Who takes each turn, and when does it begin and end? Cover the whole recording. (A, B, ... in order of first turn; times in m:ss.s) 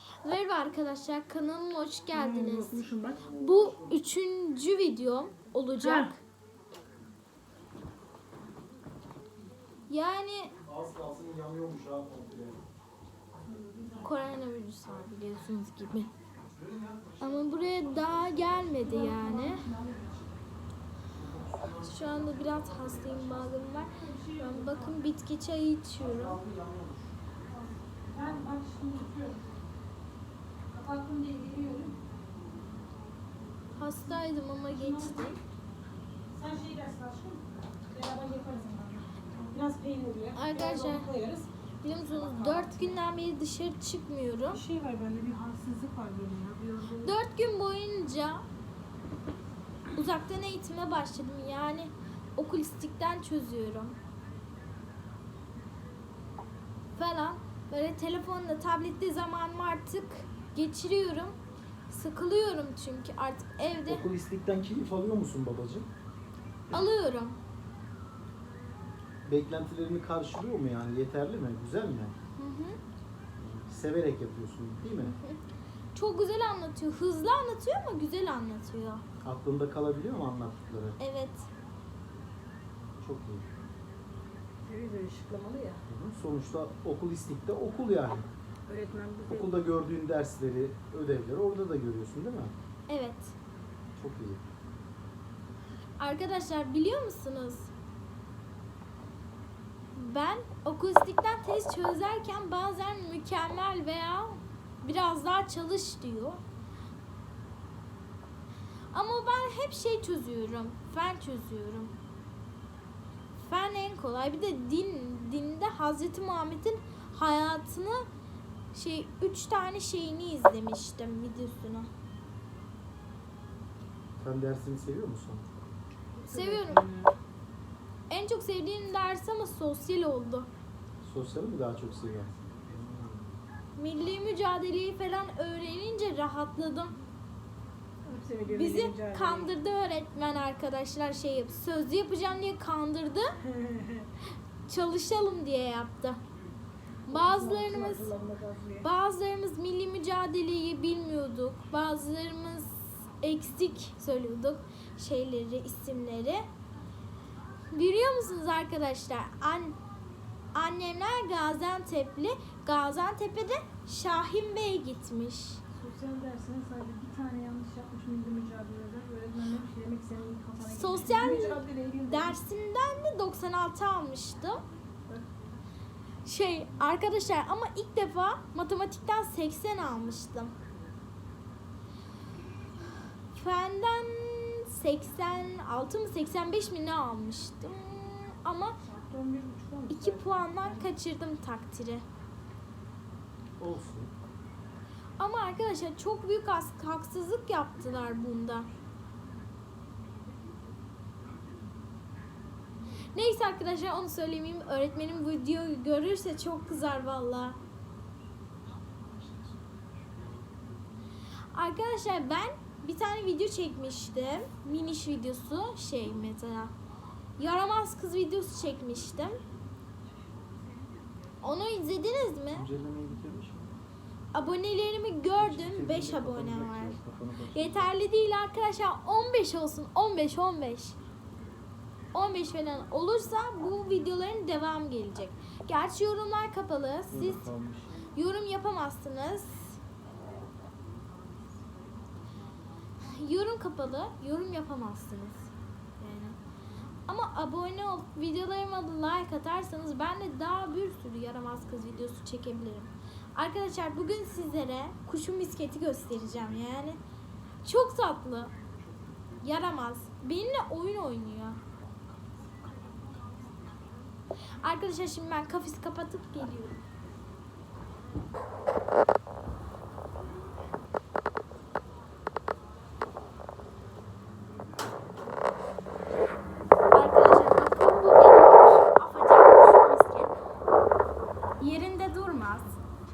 0:00.2-0:06.2 A
0:02.1-0:03.3 B
0:03.0-0:04.0 C
0:05.8-0:06.1 B
0:09.9-0:10.6 A
0:10.6-0:12.6 C
0:13.4-0:14.1 B
0:14.0-0:16.1 A
0:16.6-0:18.6 C
0:17.2-0:19.7 A
0:18.7-0:20.2 B
0:21.1-0:23.8 C
0:21.8-0:26.4 A
0:23.9-0:25.0 B
0:26.0-0:27.1 C
0:27.5-0:29.5 B
0:30.7-0:32.0 B
0:33.8-0:35.4 A
0:34.6-0:35.4 B
0:36.3-0:43.0 B
0:40.3-0:41.1 A
0:41.8-0:44.6 A
0:44.5-0:47.2 B
0:47.0-0:48.4 A
0:49.9-0:54.0 A
0:57.0-1:01.4 A
1:01.9-1:04.0 A
1:03.8-1:05.9 C
1:06.7-1:07.4 A
1:09.2-1:12.2 C
1:12.4-1:12.8 A
1:13.4-1:15.2 C
1:15.0-1:15.4 A
1:15.9-1:19.0 A
1:19.2-1:21.0 C
1:21.0-1:21.5 A
1:23.0-1:23.4 C
1:24.6-1:25.8 B
1:25.9-1:28.3 C
1:28.7-1:29.6 B
1:29.3-1:32.5 C
1:32.9-1:33.3 A
1:34.0-1:34.4 C
1:36.0-1:37.7 A
1:39.9-1:46.4 A
1:48.9-1:51.9 A
1:53.4-1:58.0 A
1:58.7-2:01.9 A
2:04.2-2:05.5 C
2:06.2-2:07.1 B
2:06.3-2:06.8 A
2:08.1-2:10.5 A
2:11.0-2:13.3 C
2:13.8-2:17.0 A
2:18.0-2:19.5 B
2:18.4-2:23.3 A
2:23.4-2:24.1 B
2:24.7-2:26.2 A
2:27.1-2:28.1 A
2:27.1-2:28.9 B
2:28.8-2:36.4 A
2:37.7-2:39.8 A
2:40.5-2:45.6 A
2:45.7-2:52.4 B
2:50.6-2:54.6 A
2:56.2-3:00.5 A
3:03.3-3:08.8 A
3:08.9-3:10.9 B
3:09.9-3:12.0 A
3:13.6-3:14.1 C
3:15.2-3:18.7 A
3:23.1-3:27.6 A
3:31.5-3:36.7 A
3:37.4-3:39.4 A
3:41.4-3:42.7 A
3:42.5-3:43.7 C
3:44.3-3:47.0 A
3:45.3-3:47.9 C
3:47.5-3:51.0 A
3:52.1-3:57.5 A
3:57.1-3:58.0 C
3:58.1-3:59.7 A
4:03.1-4:06.4 A
4:07.1-4:17.0 A
4:17.6-4:18.5 A
4:19.4-4:21.6 A
4:24.6-4:26.8 A
4:36.9-4:40.3 A
4:41.6-4:42.7 A